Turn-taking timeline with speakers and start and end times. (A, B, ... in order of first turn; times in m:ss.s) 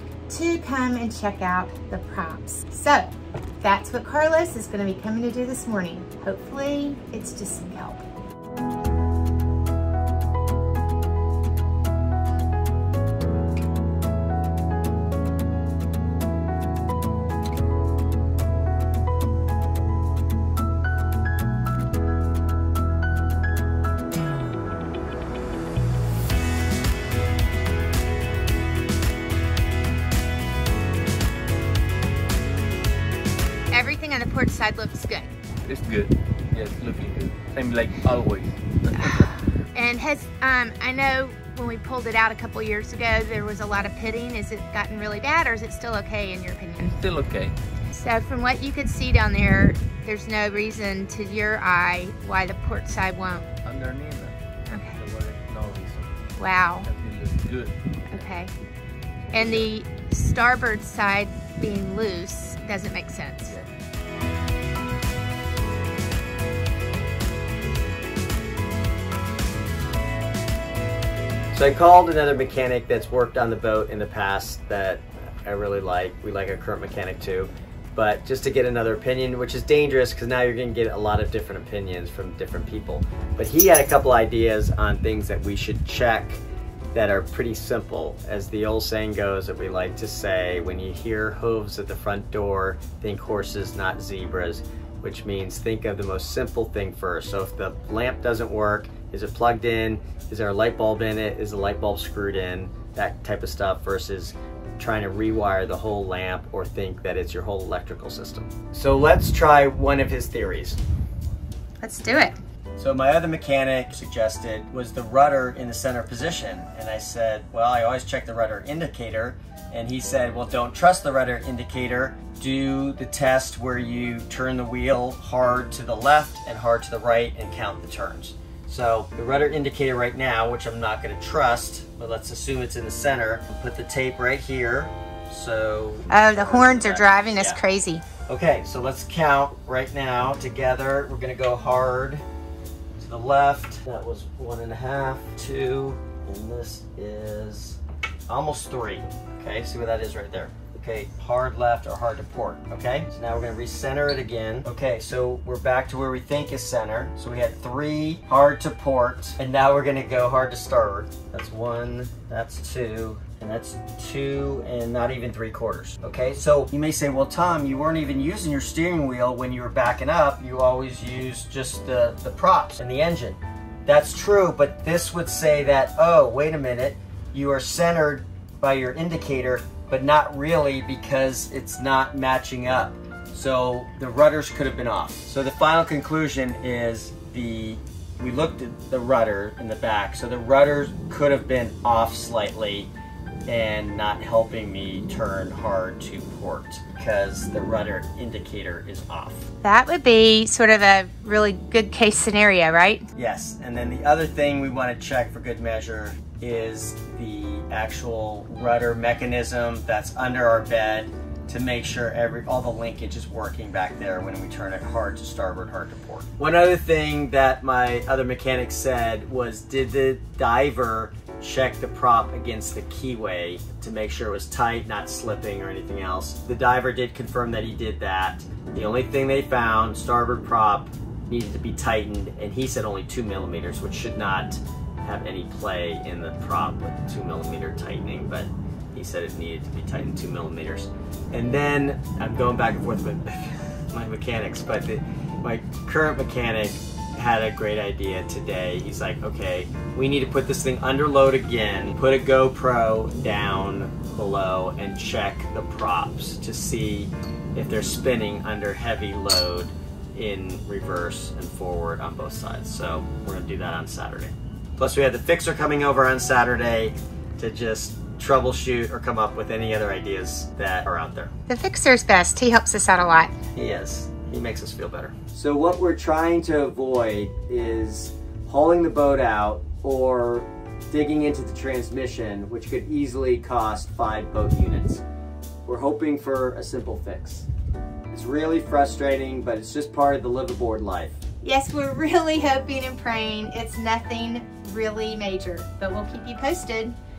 0:00.3-0:08.0 A
0:33.7-0:35.3 A
0:35.6-0:39.4 B
0:38.9-0:47.0 A
0:46.9-0:47.6 B
0:47.9-0:53.5 A
0:53.6-0:54.4 B
0:54.7-0:55.0 A
0:54.9-0:56.2 B
0:56.4-0:56.9 A
0:56.8-0:58.3 B
0:58.1-0:58.5 A
0:59.3-0:59.7 B
0:59.3-1:03.6 A
1:11.5-1:26.4 C
1:26.9-1:50.8 C
1:51.8-1:52.4 A
1:52.8-2:17.6 C
2:16.1-2:18.0 A
2:18.3-2:22.2 C
2:23.0-3:12.9 C
3:13.5-3:19.4 C
3:19.6-3:23.1 A
3:23.2-4:31.3 C
4:31.5-4:33.4 A
4:33.6-4:45.0 C
4:45.6-4:47.5 C
4:48.1-4:51.2 C
4:51.4-4:57.0 A